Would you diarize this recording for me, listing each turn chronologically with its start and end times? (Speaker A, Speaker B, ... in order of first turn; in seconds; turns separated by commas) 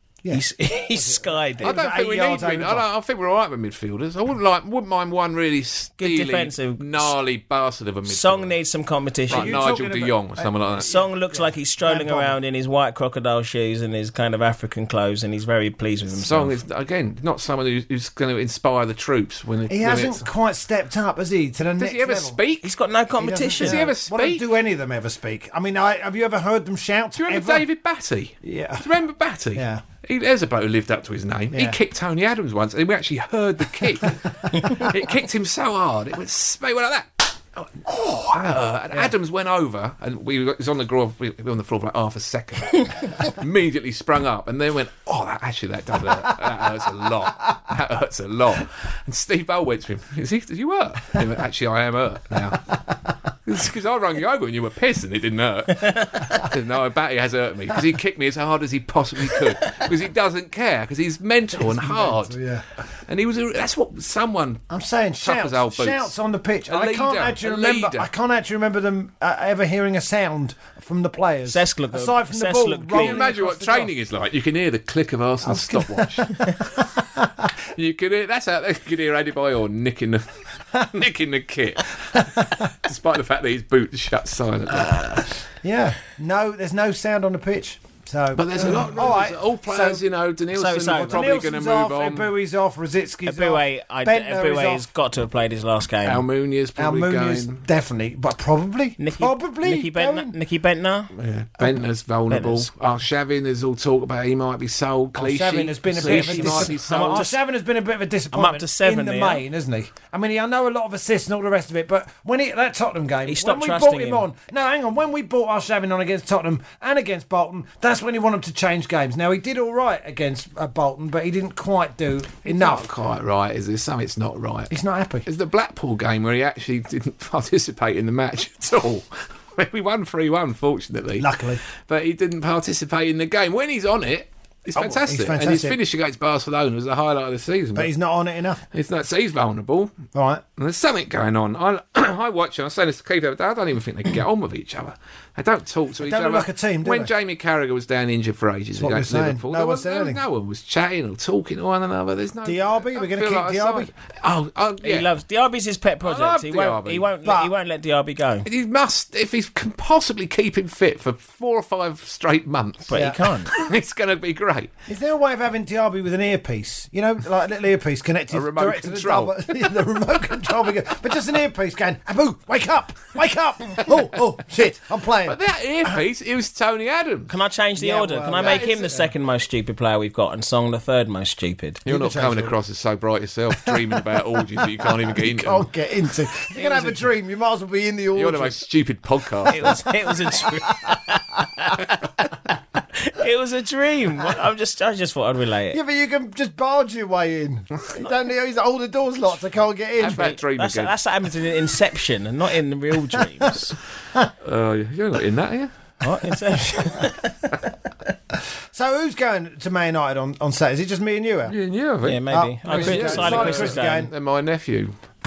Speaker A: 0.2-2.8, Speaker B: 0.3-1.8, Speaker C: 1.6-8.5, Speaker B: 6.0-7.1, Speaker B: 8.1-9.7, Speaker C: 9.3-10.9, Speaker A: 9.3-12.4, Speaker B: 10.8-16.5, Speaker C: 16.1-20.2, Speaker A: 19.7-22.4, Speaker C: 21.8-22.7, Speaker B: 22.6-23.9, Speaker A: 23.2-27.6, Speaker C: 23.6-24.4, Speaker C: 27.1-52.8, Speaker A: 28.4-28.9, Speaker A: 29.5-29.8, Speaker A: 31.5-31.8, Speaker C: 53.4-62.3, Speaker A: 61.5-62.6, Speaker C: 63.1-64.6, Speaker A: 64.7-73.9, Speaker C: 65.2-66.1, Speaker C: 66.7-68.1, Speaker B: 71.5-73.2, Speaker C: 72.9-76.5, Speaker A: 75.4-77.5, Speaker C: 77.7-85.4, Speaker A: 85.6-90.0, Speaker C: 88.3-92.3, Speaker B: 90.5-91.3, Speaker A: 90.9-94.8, Speaker B: 93.2-96.2, Speaker C: 96.0-97.6, Speaker A: 96.8-100.3, Speaker B: 99.0-101.1, Speaker C: 101.1-107.3, Speaker B: 102.3-102.7, Speaker A: 105.2-122.9, Speaker B: 106.0-107.4, Speaker B: 108.3-109.4, Speaker B: 113.3-114.3, Speaker C: 122.4-124.7, Speaker A: 124.7-125.3, Speaker C: 125.2-131.3, Speaker A: 131.2-131.6, Speaker C: 131.9-137.9, Speaker A: 134.7-135.8, Speaker A: 137.7-138.6, Speaker C: 138.7-140.1, Speaker A: 140.1-140.4, Speaker C: 140.6-155.1, Speaker A: 146.0-147.1, Speaker A: 148.8-150.2, Speaker A: 152.4-153.9, Speaker B: 154.8-158.5, Speaker C: 156.0-157.1, Speaker A: 157.2-157.5, Speaker C: 158.4-164.7, Speaker B: 162.9-163.5, Speaker A: 162.9-163.2, Speaker A: 164.9-175.4, Speaker C: 168.3-169.7, Speaker C: 175.2-177.3, Speaker B: 177.3-181.8, Speaker A: 177.8-179.1, Speaker C: 178.4-178.9, Speaker C: 181.8-185.7, Speaker A: 181.8-182.6, Speaker A: 183.6-188.6, Speaker C: 186.5-187.0, Speaker C: 188.1-189.7, Speaker B: 189.5-192.3, Speaker A: 190.4-190.9, Speaker B: 192.9-195.8, Speaker A: 195.7-200.4, Speaker C: 200.0-200.9, Speaker B: 200.1-203.7, Speaker C: 204.4-205.7, Speaker B: 206.0-207.5, Speaker A: 208.7-211.5, Speaker C: 211.5-214.9, Speaker B: 212.0-214.1, Speaker A: 212.3-214.1